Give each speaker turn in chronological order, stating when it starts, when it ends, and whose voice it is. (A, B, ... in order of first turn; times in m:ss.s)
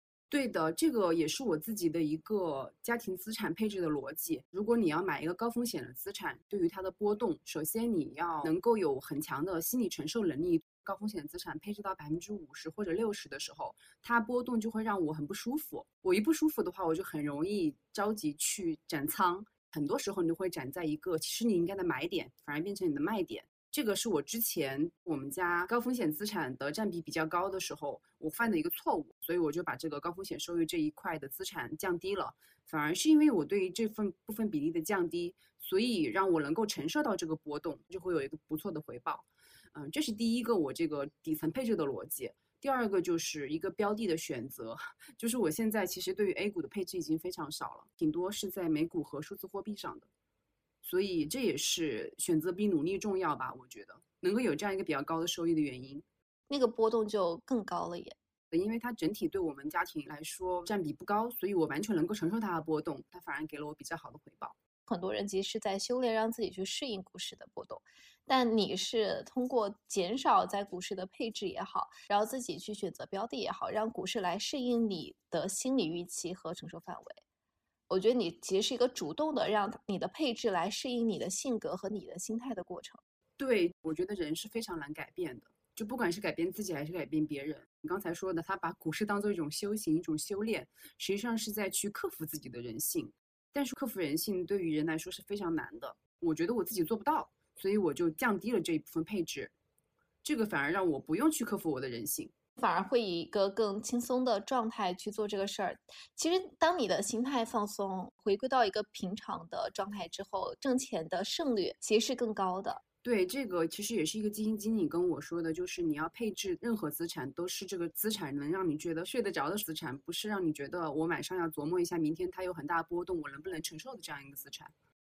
0:00.3-0:50.1 A
0:50.8-0:56.0 A
0:56.5-0:58.2 B
0:58.5-1:04.6 A
1:04.9-1:17.2 B
1:17.9-1:23.0 B
1:23.4-1:39.5 A
1:40.2-1:42.3 A
1:42.6-1:52.8 B
1:53.0-2:04.7 A